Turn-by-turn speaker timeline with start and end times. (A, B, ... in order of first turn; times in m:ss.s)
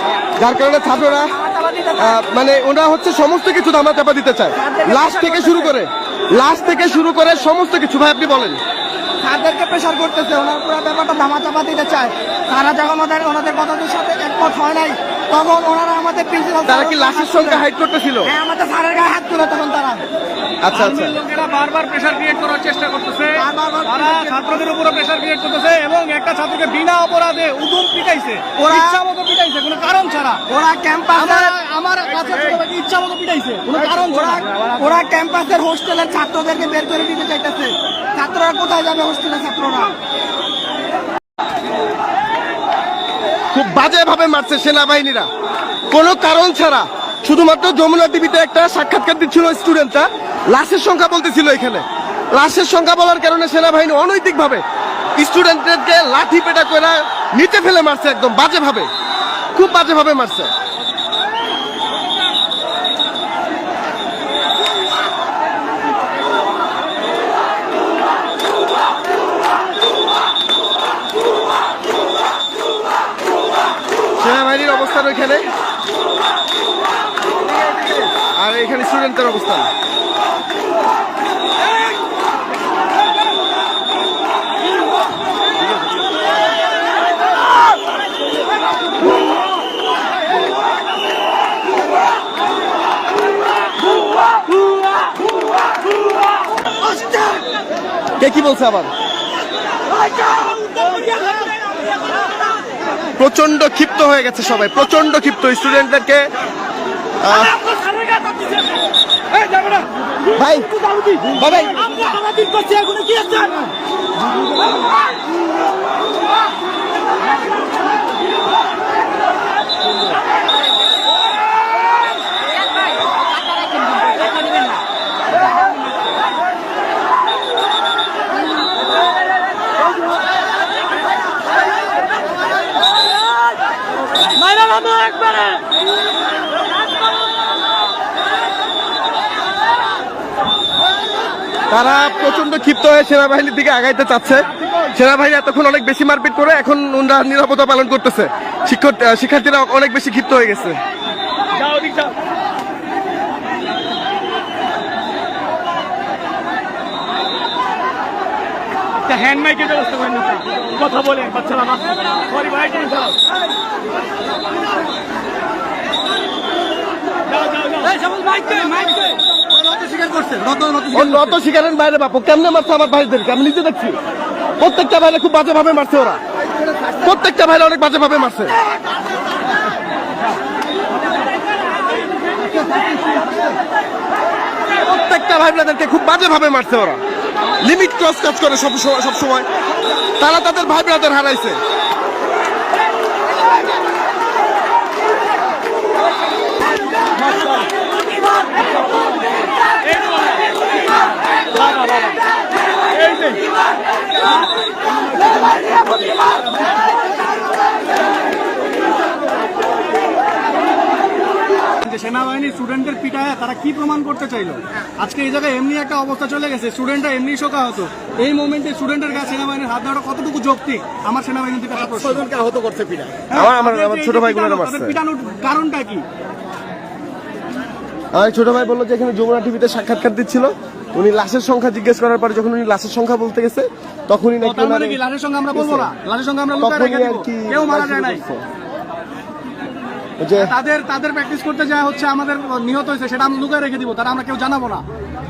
0:00.4-0:01.3 A
0:01.1-0:02.2 B
0:02.0-0:08.6 A
0:04.6-0:05.8 B
0:09.2-0:17.6 B
0:16.7-0:18.3 A
0:18.2-0:20.0 B
0:20.6-0:21.2 A
0:20.7-0:30.4 C
0:23.4-0:24.6 B
0:28.6-0:29.0 B
0:30.5-0:31.6 B
0:31.1-0:34.4 C
0:33.8-0:39.9 B
0:43.5-0:45.3 A
0:45.9-0:54.6 A
0:55.2-0:58.9 A
0:59.5-1:00.5 A
1:14.2-1:15.4 A
1:18.3-1:19.7 A
1:38.2-1:38.9 A
1:40.6-1:41.3 C
1:43.2-1:46.3 A
1:47.2-1:47.6 A
1:47.5-1:48.8 C
1:49.3-1:49.9 C
1:50.3-1:50.7 A
1:50.9-1:53.7 C
1:51.2-1:52.0 A
2:14.5-2:15.6 C
2:21.7-2:30.8 A
2:31.7-2:32.1 C
2:39.1-2:43.1 C
2:47.4-2:51.4 C
2:50.9-2:54.0 A
2:54.6-2:56.2 A
2:56.9-2:58.5 A
3:04.8-3:07.0 A
3:07.6-3:09.4 A
3:10.2-3:11.6 A
3:21.6-3:22.2 C
3:31.8-3:42.3 C
3:42.2-3:45.0 A
3:43.3-3:46.0 C
3:48.1-3:55.0 A
3:54.4-3:58.2 C
3:55.5-3:55.9 A
3:56.6-3:58.4 A
4:00.2-4:00.5 A
4:00.4-4:04.8 C